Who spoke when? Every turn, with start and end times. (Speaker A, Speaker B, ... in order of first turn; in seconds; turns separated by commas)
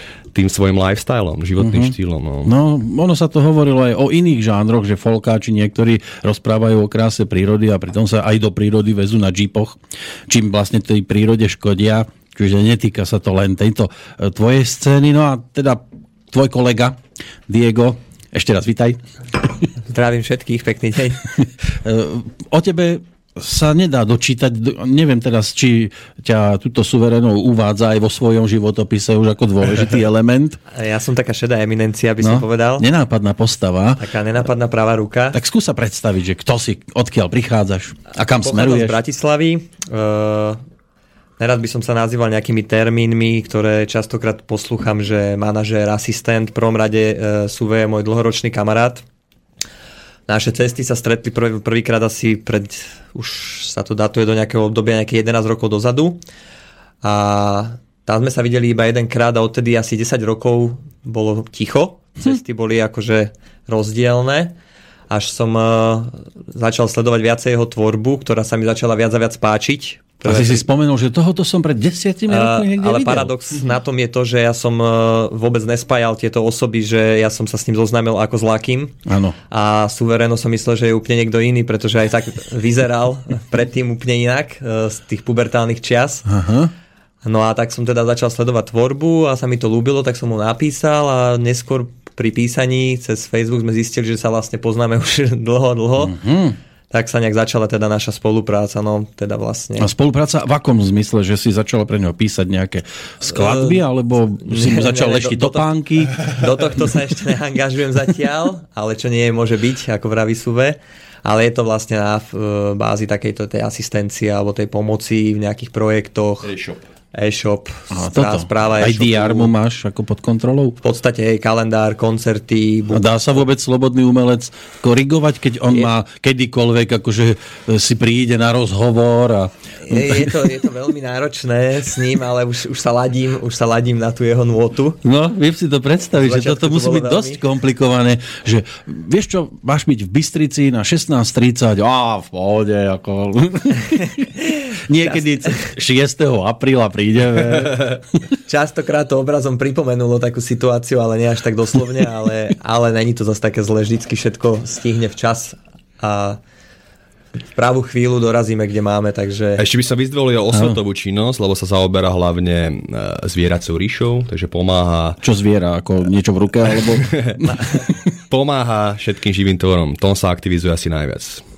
Speaker A: 0.3-2.5, Speaker B: 1.6-19.0, Speaker C: 19.9-21.2, Speaker B: 21.8-30.6, Speaker C: 30.7-32.9, Speaker B: 32.2-34.0, Speaker C: 34.0-35.4, Speaker B: 35.3-39.0, Speaker C: 38.1-40.6, Speaker C: 41.4-49.0, Speaker C: 50.3-56.2, Speaker C: 57.0-64.5, Speaker C: 65.1-70.6, Speaker B: 70.2-73.3, Speaker C: 72.3-78.9, Speaker B: 79.0-79.3, Speaker C: 79.5-86.3, Speaker B: 86.2-86.7, Speaker C: 87.2-96.2, Speaker B: 96.0-96.6, Speaker C: 96.9-99.9, Speaker B: 99.8-106.2, Speaker C: 103.3-103.8, Speaker C: 104.4-116.5, Speaker A: 116.4-116.8, Speaker C: 117.1-119.5, Speaker B: 117.9-120.8, Speaker C: 120.8-123.1, Speaker B: 122.9-130.3, Speaker C: 129.8-135.0, Speaker B: 135.0-148.0, Speaker C: 136.2-137.4, Speaker C: 145.0-145.7, Speaker C: 148.4-156.4, Speaker C: 157.5-159.6, Speaker A: 159.6-165.2, Speaker B: 160.5-160.8, Speaker B: 165.2-167.5, Speaker A: 166.8-167.4, Speaker C: 167.4-167.8, Speaker A: 168.3-171.4